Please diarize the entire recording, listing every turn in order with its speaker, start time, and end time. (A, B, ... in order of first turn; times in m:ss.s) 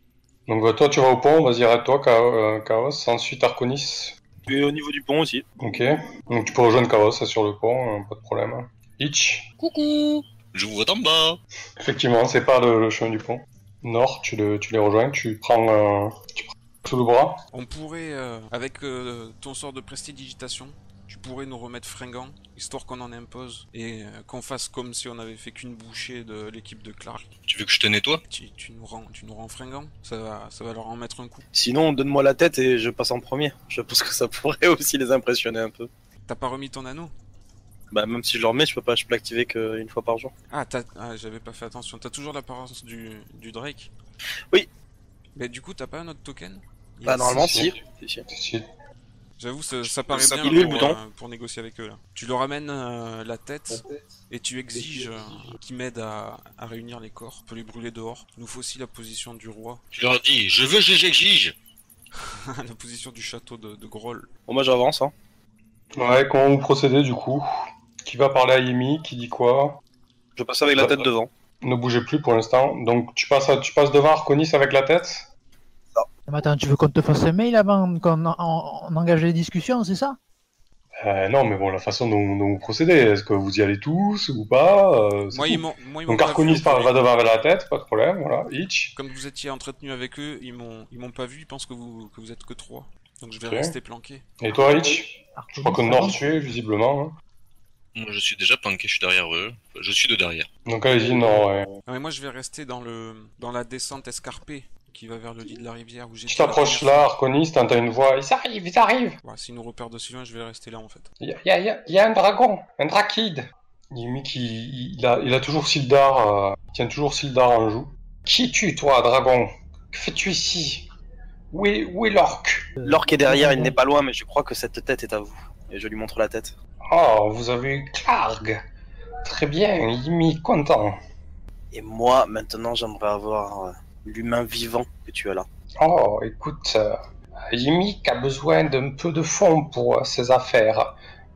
0:00.5-0:04.2 A
0:04.5-0:05.5 B
0:05.6-0:09.5 A
0:09.6-0:11.4 C
0:11.8-0:17.4 A
0:17.5-0:27.3 D
0:27.5-0:28.2 C
0:28.3-0:31.4 D
0:31.5-0:35.9 B
0:36.3-0:37.1 D
0:37.9-0:40.3 B
0:40.5-0:43.9 D
0:45.4-0:47.7 D
0:47.0-0:48.3 B
0:47.3-0:47.7 A
0:48.3-0:48.7 A
0:49.4-0:59.8 D
0:50.1-0:51.0 B
0:59.9-1:01.6 C
1:02.2-1:04.3 D
1:04.5-1:05.1 B
1:06.0-1:07.5 A
1:08.0-1:09.8 A
1:10.4-1:11.3 B
1:10.7-1:11.1 A
1:11.6-1:15.3 A
1:16.3-1:20.2 E
1:21.0-1:28.9 A
1:25.3-1:27.0 D
1:29.0-1:34.2 D
1:33.5-1:33.7 A
1:34.4-1:37.1 A
1:35.4-1:36.2 E
1:38.0-1:40.5 C
1:40.7-1:41.7 A
1:41.9-1:47.1 D
1:46.3-1:49.2 A
1:49.2-1:51.1 D
1:51.2-2:00.9 A
2:01.5-2:02.7 A
2:02.8-2:03.8 E
2:02.8-2:06.6 B
2:06.9-2:08.6 A
2:09.2-2:11.0 A
2:11.7-2:15.5 B
2:15.8-2:21.0 A